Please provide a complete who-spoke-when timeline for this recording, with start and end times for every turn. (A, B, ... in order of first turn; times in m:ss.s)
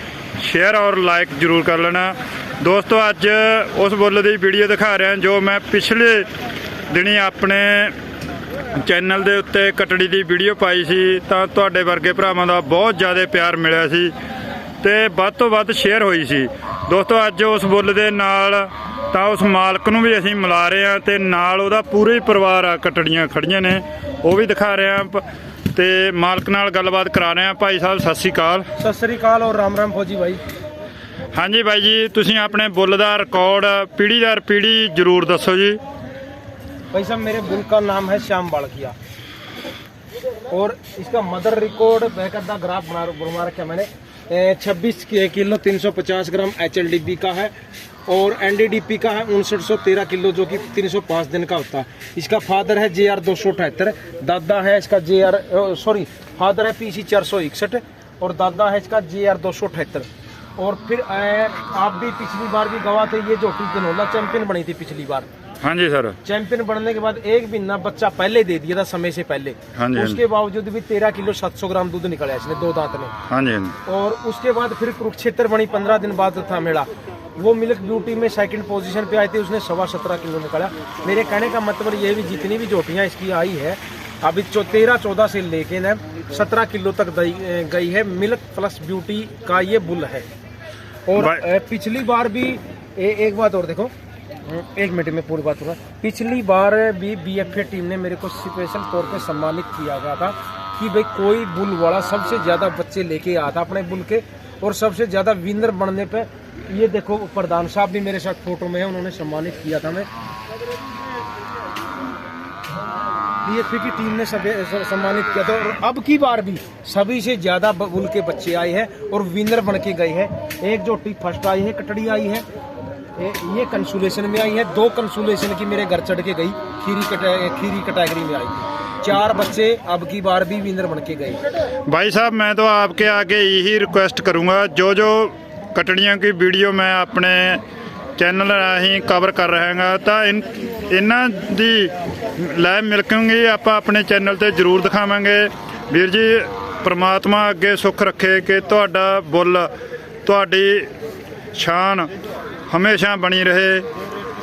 0:00.4-0:06.2 A
0:06.9-0:07.9 A
0:08.7-0:14.1 A
0:14.8-0:25.2 A
0:25.7-0:28.7 A
0:28.8-0:30.4 B
0:31.3-0:35.8 A
0:36.9-0:39.0 B
0:40.5-0:47.5 B
0:48.1-1:05.3 B
1:05.6-1:06.2 A
1:06.2-1:13.1 B
1:09.7-1:10.2 A
1:13.3-1:13.8 A
1:13.8-1:30.2 B
1:31.0-1:33.9 B
1:31.2-1:31.4 A
1:34.4-1:50.1 B
1:53.4-2:02.4 B
2:03.2-2:11.4 B
2:11.9-2:17.6 A
2:18.2-2:29.7 A
2:30.2-2:30.9 A
2:31.5-2:32.1 A
2:32.7-2:33.8 A